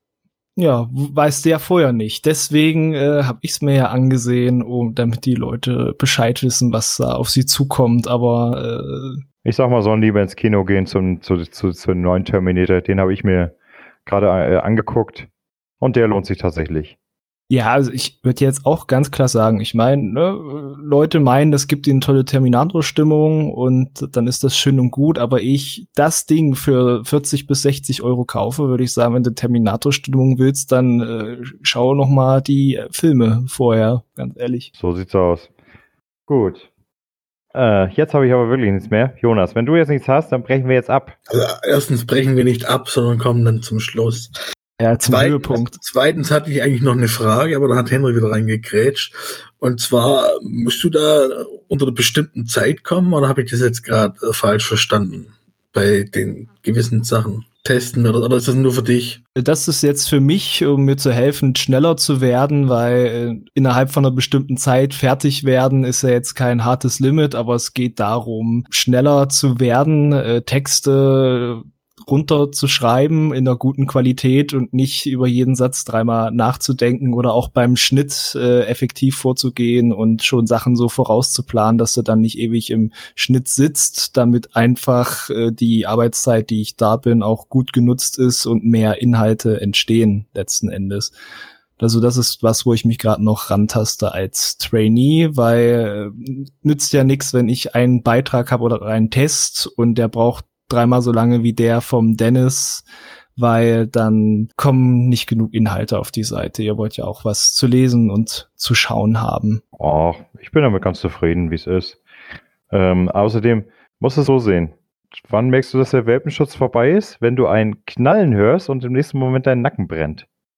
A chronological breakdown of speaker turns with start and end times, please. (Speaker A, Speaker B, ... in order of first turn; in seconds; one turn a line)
Speaker A: 0.6-9.2
Speaker B: 9.4-13.5
Speaker B: 14.1-15.3
Speaker B: 15.8-16.9
Speaker A: 17.5-34.7
Speaker B: 34.8-35.5
Speaker B: 36.3-36.7
Speaker B: 37.5-41.1
Speaker C: 41.3-44.3
Speaker A: 44.8-45.8
Speaker C: 45.0-59.2
Speaker A: 59.4-91.1
Speaker A: 91.8-102.8
Speaker A: 103.3-109.6
Speaker B: 109.8-112.0
Speaker B: 112.7-120.2